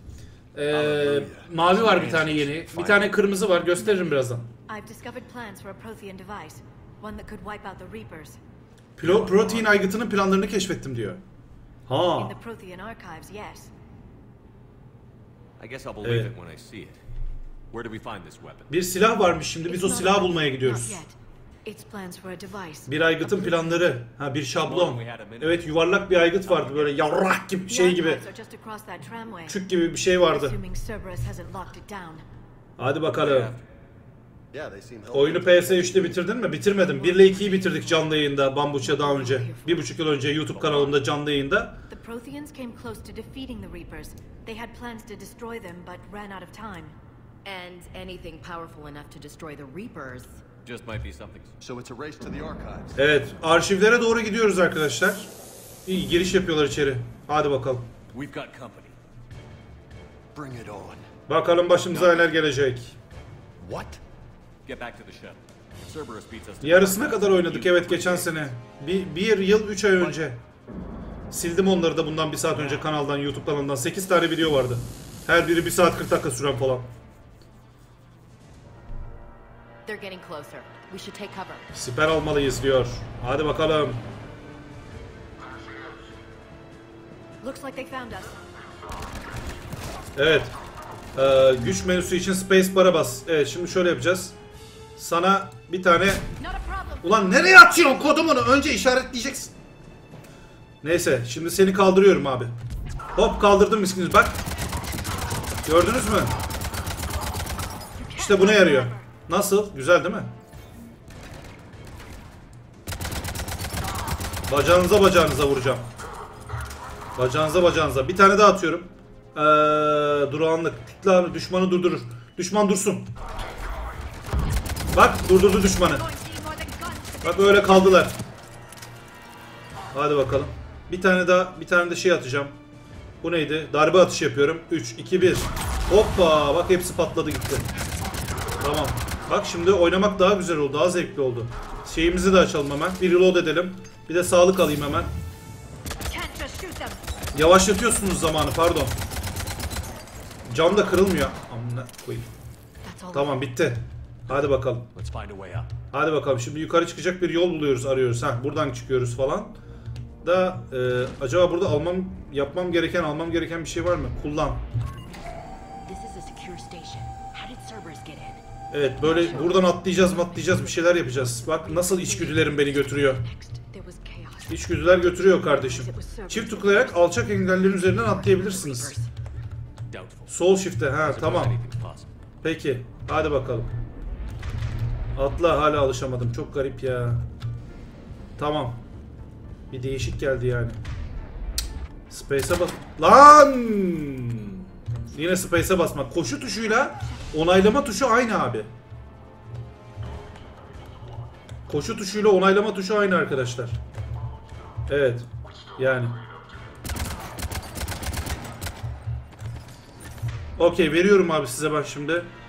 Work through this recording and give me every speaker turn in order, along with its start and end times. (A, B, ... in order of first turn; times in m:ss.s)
0:00.5-0:04.5 A
0:00.7-0:03.1 B
0:04.7-0:08.4 C
0:09.0-0:11.2 A
0:09.0-0:09.6 D
0:11.9-0:12.3 A
0:12.2-0:13.7 C
0:15.6-0:17.0 D
0:16.0-0:16.3 A
0:17.7-0:18.7 D
0:18.7-0:21.0 A
0:19.6-0:22.9 C
0:22.9-0:28.2 A
0:24.6-0:27.0 D
0:27.7-0:29.6 C
0:29.5-0:30.6 A
0:30.2-0:32.2 C
0:32.8-0:33.5 A
0:33.1-0:33.6 D
0:34.5-0:36.2 B
0:35.1-0:41.8 A
0:36.7-0:38.2 C
0:38.8-0:40.0 C
0:40.6-0:41.0 D
0:41.9-0:47.0 C
0:47.4-0:50.4 E
0:50.6-0:51.5 D
0:51.6-0:53.0 B
0:52.9-0:55.3 A
0:55.8-0:57.9 A
0:58.1-0:59.0 D
1:00.3-1:01.0 B
1:01.3-1:03.0 A
1:01.9-1:02.2 D
1:03.6-1:04.0 B
1:04.6-1:08.5 D
1:06.6-1:10.4 A
1:11.3-1:16.9 A
1:12.5-1:12.8 D
1:19.8-1:21.6 E
1:21.7-1:24.0 A
1:27.4-1:28.4 C
1:30.1-1:30.5 A
1:31.1-1:34.4 A
1:35.0-1:36.2 A
1:36.4-1:37.1 C
1:37.0-1:39.5 A
1:40.8-1:42.5 A
1:43.1-1:44.4 A
1:45.6-1:46.3 A
1:48.0-1:49.1 C
1:48.2-1:50.3 A
1:54.5-1:55.8 A
1:57.1-2:03.1 A
2:04.9-2:06.1 A
2:06.1-2:07.6 C
2:07.2-2:08.2 A
2:09.9-2:12.6 A
2:13.2-2:17.7 A
2:18.6-2:25.1 A
2:26.0-2:27.0 C
2:27.3-2:29.0 A
2:30.5-2:32.3 A
2:32.8-2:33.5 C
2:33.1-2:34.9 A
2:34.9-2:35.7 D
2:35.9-2:39.5 A
2:40.2-2:44.6 A
2:45.8-2:48.4 E
2:48.7-2:53.2 A
2:49.0-2:54.6 C
2:54.5-2:59.0 A
2:55.2-2:57.4 C
2:57.6-2:58.9 E
2:59.9-3:00.3 D
3:00.3-3:01.6 A
3:01.0-3:02.1 D
3:02.4-3:03.7 A
3:05.1-3:07.2 A
3:08.4-3:08.8 A
3:09.7-3:10.8 A
3:12.1-3:18.7 A
3:21.7-3:23.8 A
3:24.9-3:25.2 A
3:25.8-3:26.2 A
3:30.6-3:32.3 A